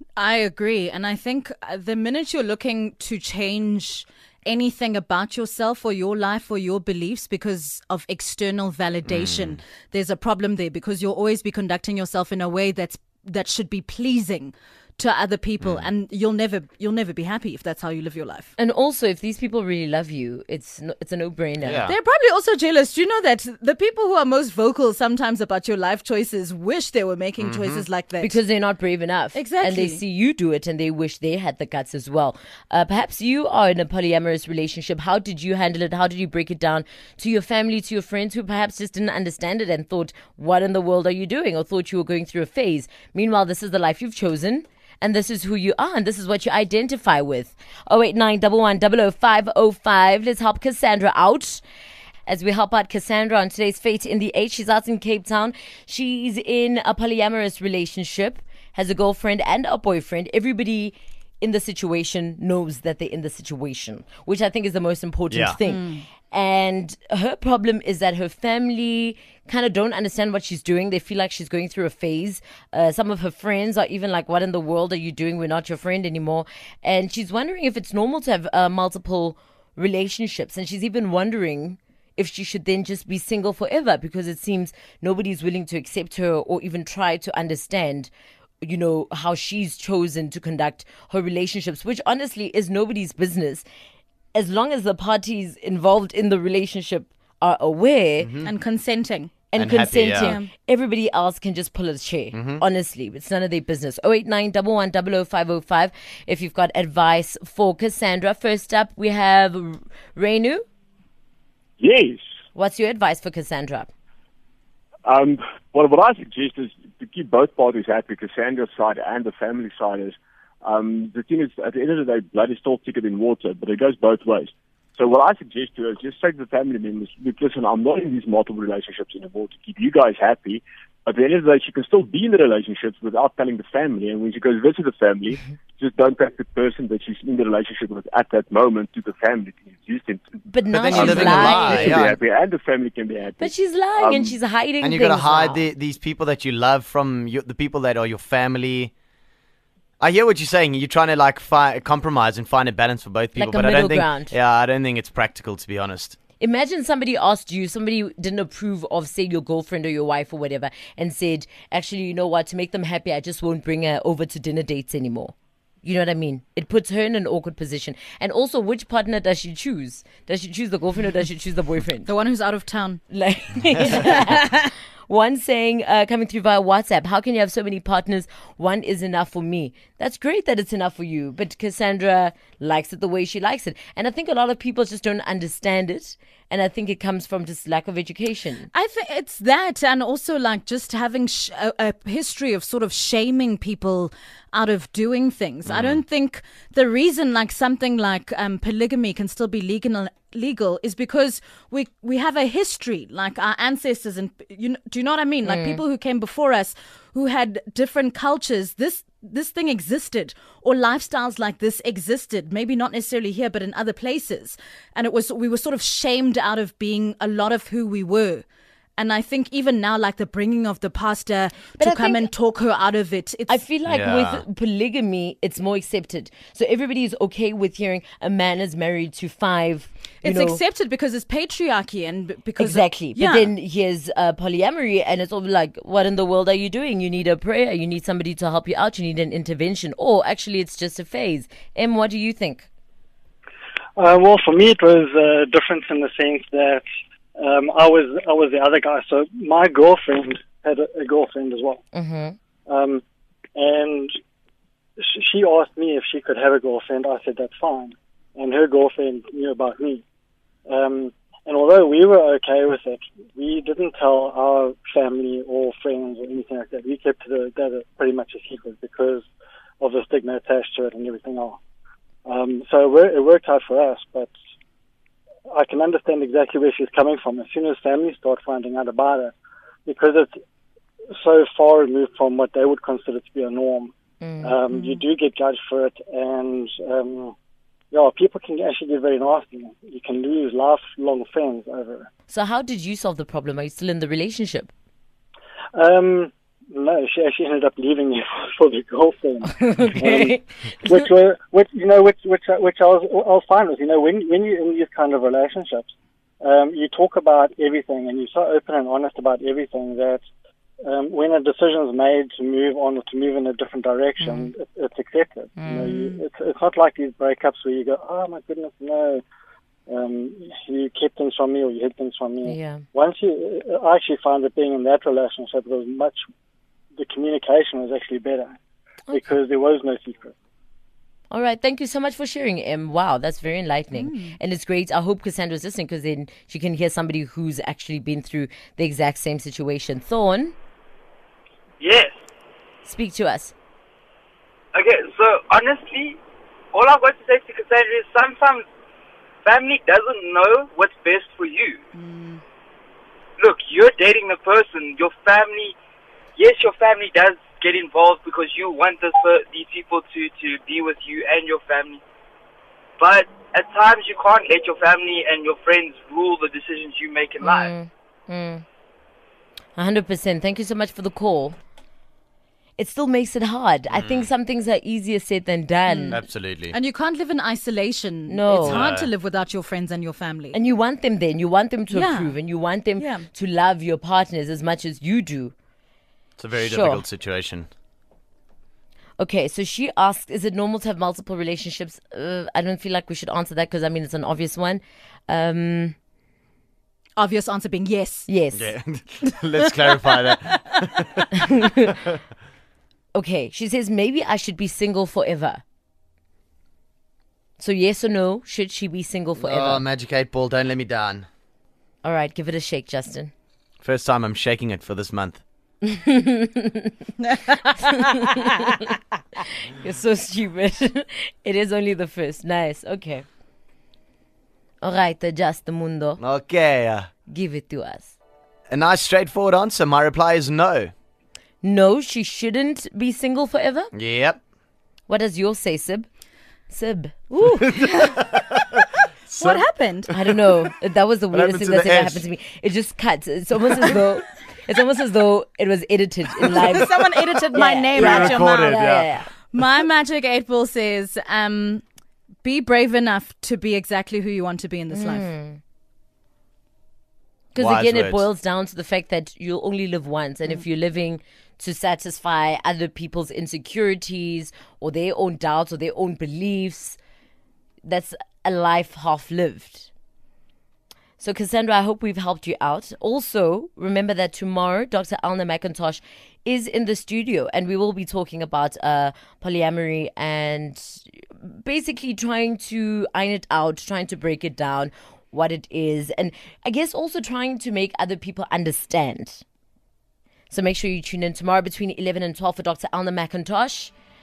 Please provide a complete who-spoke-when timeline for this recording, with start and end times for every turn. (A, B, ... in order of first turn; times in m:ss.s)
0:00.2-0:18.5 A
0:09.1-0:09.6 B
0:15.6-0:15.9 B
0:18.6-0:21.9 C
0:21.6-0:22.0 B
0:21.8-0:28.4 A
0:27.4-0:27.9 B
0:28.2-0:51.6 C
0:29.3-0:30.0 A
0:52.3-1:28.1 C
1:05.3-1:05.6 B
1:05.6-1:06.0 A
1:28.6-1:33.6 C
1:34.3-1:38.3 C
1:38.2-1:38.5 B
1:38.4-1:39.5 A
1:39.5-1:50.6 C
1:39.6-1:40.4 B
1:40.1-1:40.5 A
1:42.3-1:42.6 B
1:51.8-1:52.2 D
1:52.6-1:53.9 C
1:55.1-2:24.4 D
2:20.5-2:22.0 C
2:20.7-2:22.2 B
2:23.4-2:25.7 C
2:24.8-2:28.9 B
2:30.0-2:36.2 B
2:33.4-2:34.4 C
2:36.4-2:52.1 C
2:52.1-2:53.0 A
2:53.1-3:08.7 C
2:53.9-2:54.6 A
3:08.7-3:38.4 A
3:15.7-3:16.0 B
3:25.4-3:25.8 C
3:39.0-3:43.6 A
3:41.8-3:42.3 C
3:43.5-3:50.6 C
3:43.9-3:44.4 B
3:50.2-3:53.5 A
3:52.6-4:02.7 C
4:04.0-4:06.8 E
4:07.4-4:11.8 E
4:11.9-4:12.4 C
4:12.7-4:13.0 E
4:13.6-4:14.1 E
4:15.0-4:20.0 E
4:20.7-4:29.3 E
4:29.8-4:31.6 E
4:32.3-4:34.3 E
4:35.5-4:39.3 E
4:39.9-4:40.3 E
4:41.2-4:47.3 E
4:44.2-4:44.6 C
4:44.7-4:45.0 A
4:47.9-4:52.1 E
4:52.3-4:54.7 C
4:55.8-5:05.9 E
4:59.6-5:01.0 C
5:06.4-5:10.2 E
5:10.8-5:19.2 E
5:14.2-5:14.5 C
5:15.6-5:15.9 C
5:19.9-5:26.2 E
5:22.4-5:22.8 C
5:27.0-5:28.6 E
5:29.1-5:30.3 E
5:31.3-5:40.6 C
5:33.9-5:34.4 A
5:41.8-5:42.2 F
5:42.8-5:43.5 C
5:44.7-5:46.2 F
5:46.7-5:48.6 F
5:49.4-5:51.8 F
5:52.0-5:52.4 A
5:53.4-5:55.8 F
5:56.4-6:02.0 F
6:03.0-6:07.7 F
6:07.4-6:08.6 C
6:09.8-6:11.6 C
6:12.8-6:16.2 C
6:14.0-6:14.3 B
6:15.9-6:20.6 A
6:16.1-6:16.8 B
6:18.3-6:18.8 C
6:18.6-6:19.1 B
6:20.5-6:25.5 C
6:21.9-6:22.4 A
6:23.0-6:23.3 A
6:26.4-6:27.7 B
6:26.6-6:27.0 C
6:29.2-6:36.0 C
6:37.2-6:38.3 A
6:38.3-6:38.7 C
6:38.5-6:41.2 B
6:43.1-6:45.6 C
6:47.6-6:49.8 C
6:49.4-6:51.3 B
6:52.0-6:53.3 C
6:53.8-6:55.4 B
6:56.0-6:56.9 C
6:59.7-7:03.3 C
7:04.8-7:06.2 C
7:06.2-7:07.1 B
7:07.3-7:08.2 C
7:08.7-7:10.9 B
7:11.6-7:13.9 C
7:13.9-7:14.4 B
7:15.1-7:16.1 C
7:16.7-7:17.8 C
7:18.3-7:18.6 B
7:19.3-7:20.1 A
7:19.3-7:19.6 B
7:20.1-7:26.9 C
7:21.3-7:22.2 B
7:26.5-7:28.8 A
7:27.5-7:29.3 C
7:27.9-7:29.1 B
7:29.5-7:31.8 A
7:32.4-7:35.3 A
7:34.9-7:35.6 C
7:37.5-7:47.0 C
7:37.6-7:38.2 B
7:47.8-7:49.9 C
7:51.2-8:09.4 C
8:10.5-8:13.9 C